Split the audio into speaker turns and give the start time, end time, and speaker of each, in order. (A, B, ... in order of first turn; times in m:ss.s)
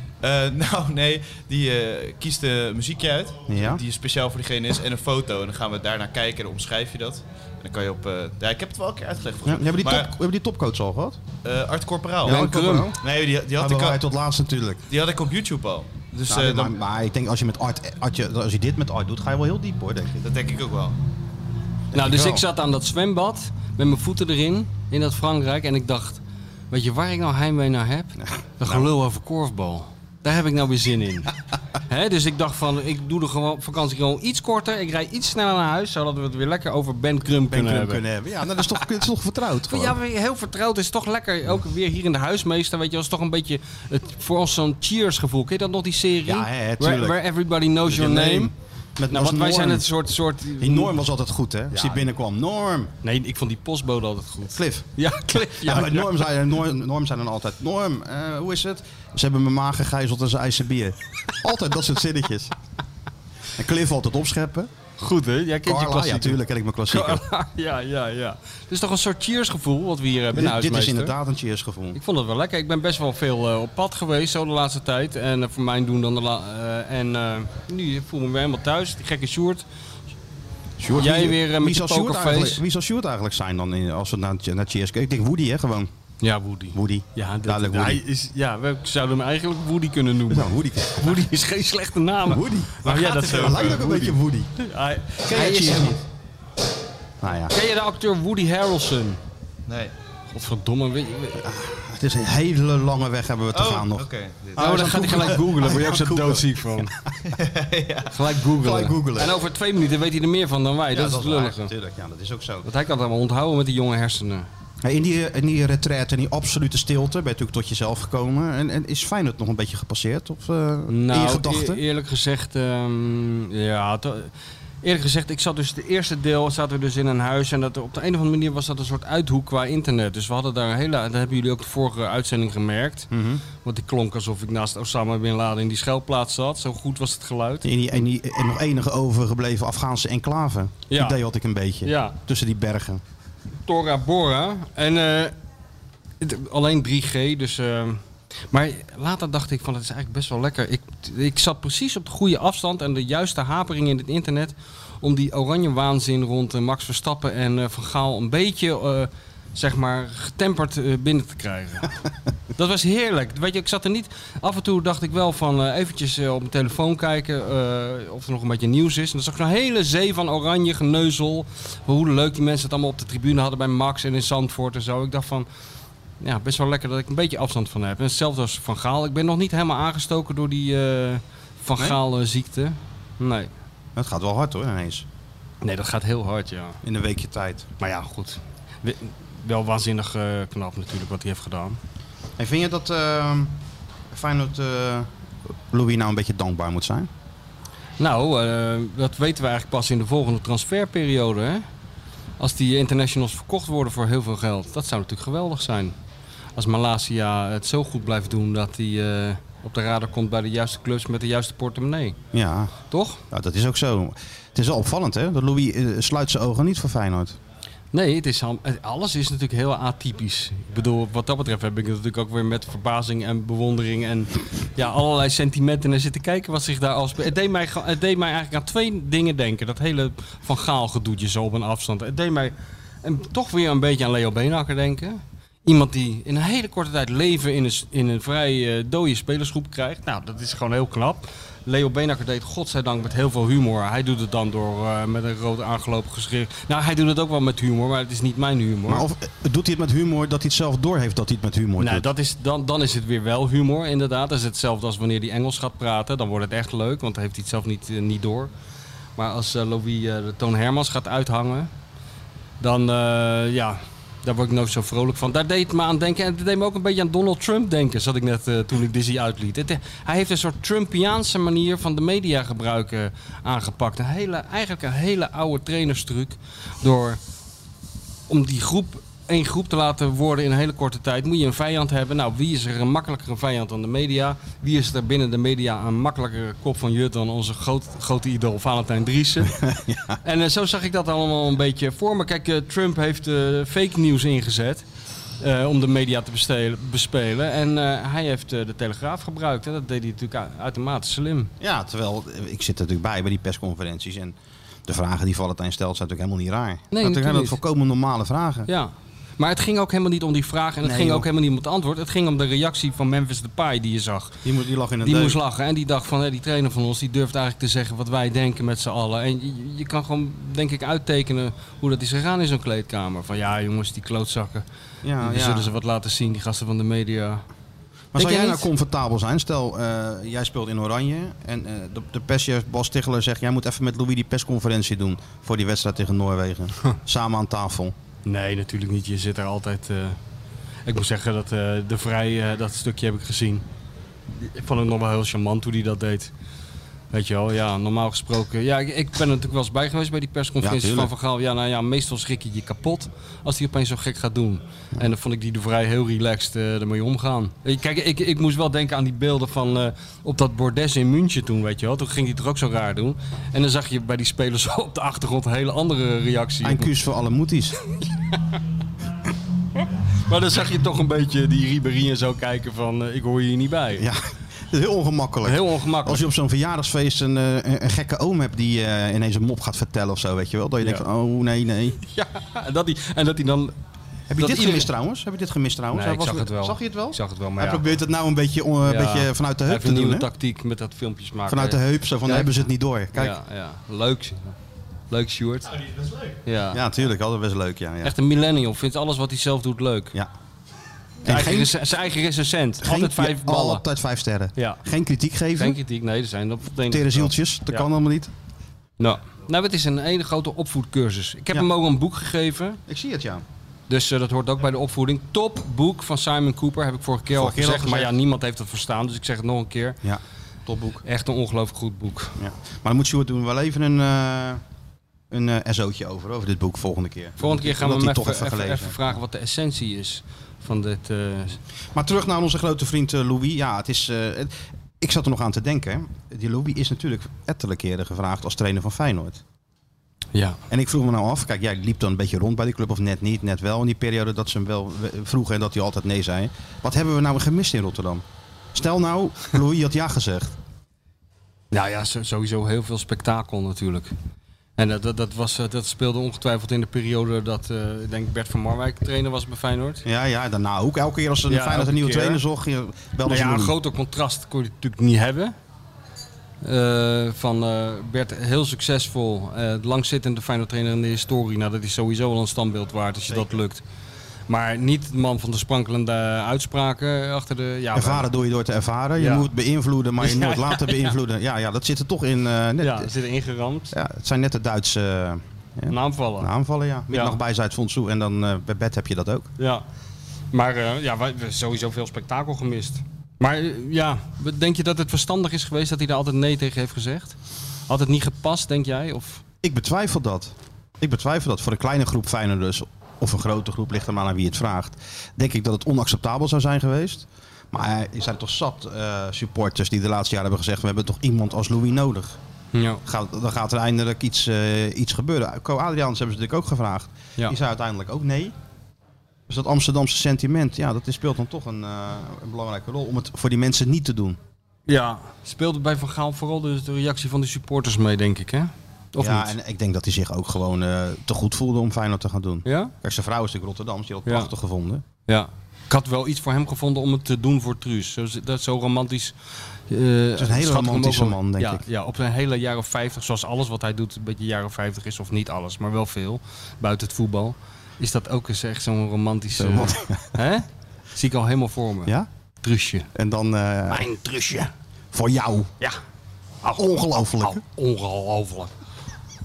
0:00.2-0:10.1 A
0:03.5-0:03.8 B
0:09.4-0:11.2 B
0:11.4-0:12.4 A
0:12.2-0:13.0 B
0:12.2-0:12.9 C
0:13.0-0:14.0 A
0:13.6-0:14.8 B
0:14.9-0:16.7 A
0:16.3-0:20.3 B
0:20.2-0:21.0 A
0:21.9-0:22.4 B
0:21.9-0:38.0 C
0:28.2-0:28.9 B
0:37.5-0:40.0 B
0:39.6-0:48.5 C
0:46.2-0:47.2 B
0:47.8-0:49.9 B
0:49.1-0:50.9 C
0:50.6-0:52.9 B
0:51.7-0:52.0 C
0:53.0-0:56.2 C
0:54.5-1:02.5 B
1:03.6-1:04.7 B
1:05.0-1:11.1 C
1:05.6-1:07.2 B
1:10.3-1:12.0 B
1:12.0-1:19.6 C
1:20.8-1:25.9 B
1:20.9-1:22.6 C
1:26.2-1:36.0 C
1:26.7-1:28.0 B
1:30.3-1:31.3 B
1:32.2-1:34.5 B
1:33.0-1:34.0 A
1:35.3-1:36.0 B
1:37.2-1:37.5 B
1:37.5-1:39.2 C
1:39.7-1:39.9 A
1:40.3-1:41.5 C
1:41.4-1:47.2 B
1:43.5-1:44.6 A
1:44.6-1:46.9 C
1:47.2-1:48.1 A
1:48.1-1:51.7 C
1:48.5-1:49.3 B
1:50.9-1:52.6 B
1:52.6-1:54.5 C
1:54.8-2:01.8 B
2:00.9-2:04.3 C
2:04.8-2:13.1 C
2:13.1-2:13.4 B
2:13.6-2:17.6 C
2:17.6-2:23.0 B
2:20.9-2:21.2 C
2:21.8-2:22.1 C
2:23.6-2:25.3 C
2:26.2-2:42.0 C
2:42.5-2:55.5 C
2:56.2-3:03.5 C
3:04.0-3:05.0 B
3:05.6-3:06.8 C
3:06.8-3:07.7 B
3:07.8-3:11.8 C
3:12.4-3:13.5 B
3:14.1-3:15.1 B
3:15.7-3:17.1 B
3:18.0-3:21.6 C
3:22.4-3:25.9 C
3:26.6-3:32.2 C
3:32.3-3:32.7 B
3:32.9-3:33.2 C
3:33.3-3:37.4 B
3:37.9-4:09.0 C
4:08.9-4:12.1 B
4:11.8-4:18.5 C
4:19.2-4:21.7 C
4:22.6-4:37.2 C
4:38.3-4:49.6 C
4:49.5-4:50.2 B
4:50.2-4:54.8 C
4:55.4-5:01.5 C
5:01.6-5:04.3 B
5:04.8-5:08.7 B
5:06.9-5:07.6 C
5:08.7-5:14.4 C
5:10.8-5:11.3 B
5:14.4-5:15.4 B
5:15.0-5:24.6 C
5:25.0-5:25.7 B
5:25.2-5:27.4 C
5:28.1-5:37.9 B
5:28.1-5:28.7 C
5:38.2-5:40.2 C
5:40.8-5:43.6 C
5:44.3-5:46.3 C
5:47.1-6:06.9 C
5:50.6-5:51.1 B
6:06.6-6:07.8 B
6:08.0-6:08.4 C
6:10.2-6:14.0 C
6:13.9-6:22.0 B
6:15.4-6:16.2 C
6:22.0-6:23.7 C
6:24.3-6:30.3 B
6:24.4-6:24.9 C
6:25.9-6:27.8 C
6:28.8-6:34.6 C
6:31.5-6:33.4 B
6:35.1-6:35.7 C
6:35.7-6:36.4 A
6:36.4-6:36.8 C
6:36.7-6:38.1 B
6:38.0-6:40.1 C
6:41.2-6:41.7 B
6:41.2-6:43.8 C
6:42.8-6:45.8 B
6:44.6-6:44.8 C
6:45.6-6:47.9 C
6:46.8-6:48.3 B
6:49.0-6:52.8 C
6:52.9-6:53.4 B
6:53.9-7:00.0 C
6:57.3-6:58.2 B
7:00.0-7:01.0 B
7:01.0-7:02.4 C
7:02.4-7:04.6 B
7:05.3-7:09.1 B
7:07.4-7:11.6 C
7:11.9-7:19.4 B
7:20.3-7:20.6 C
7:20.7-7:30.6 B
7:31.7-7:34.1 C
7:34.8-7:40.0 C
7:40.0-7:43.8 B
7:41.5-7:42.4 C
7:43.2-7:45.5 C
7:46.6-7:53.8 C
7:53.3-7:53.6 B
7:54.5-7:58.3 C
7:57.9-8:03.1 B
7:59.2-7:59.5 C
8:00.2-8:01.1 C
8:02.8-8:03.9 C
8:03.9-8:09.5 B
8:05.9-8:06.5 C
8:07.1-8:07.4 C
8:09.6-8:09.8 C
8:10.5-8:19.4 C
8:19.6-8:32.4 B
8:32.7-8:33.0 C
8:33.0-8:38.5 B
8:39.5-8:44.4 B
8:44.9-8:49.5 C
8:49.2-8:55.0 B
8:52.6-8:52.9 C
8:54.2-8:54.5 C
8:55.3-8:59.3 C
8:59.9-9:13.1 C
9:00.4-9:01.8 B
9:09.6-9:10.4 B
9:13.1-9:14.1 B
9:13.9-9:14.7 C
9:15.1-9:15.7 B
9:16.6-9:18.7 C
9:16.7-9:17.6 B